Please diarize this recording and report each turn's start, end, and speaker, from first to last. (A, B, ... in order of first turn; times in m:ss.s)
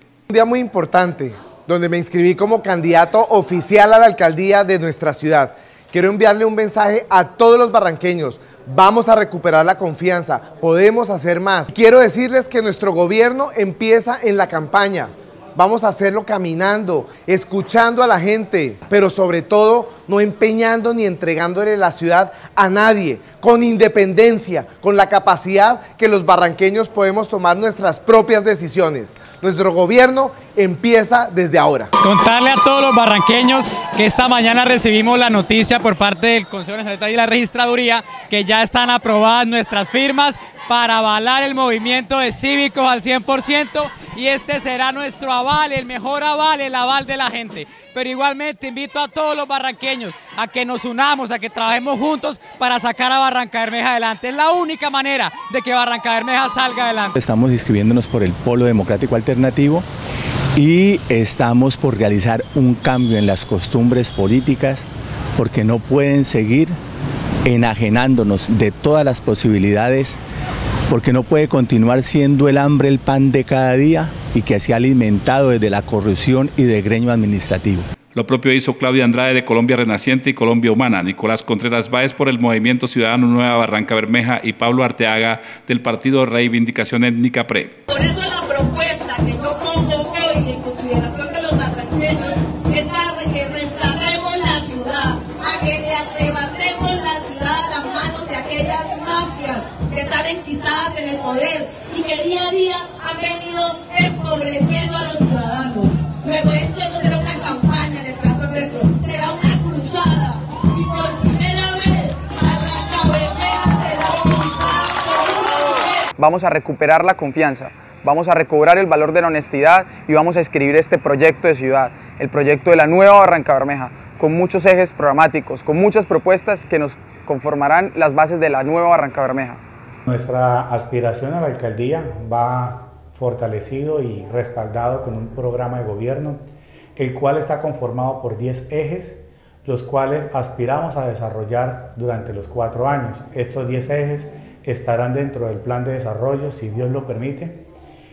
0:00.3-0:31.9 A
0:32.0-0:57.1 B
0:57.1-0:59.8 C
1:00.5-1:06.8 C
1:07.4-1:10.2 C
1:10.9-1:17.8 C
1:18.1-1:27.8 D
1:27.9-1:56.0 E
1:56.1-2:09.6 F
2:10.0-2:16.4 G
2:17.0-2:27.6 G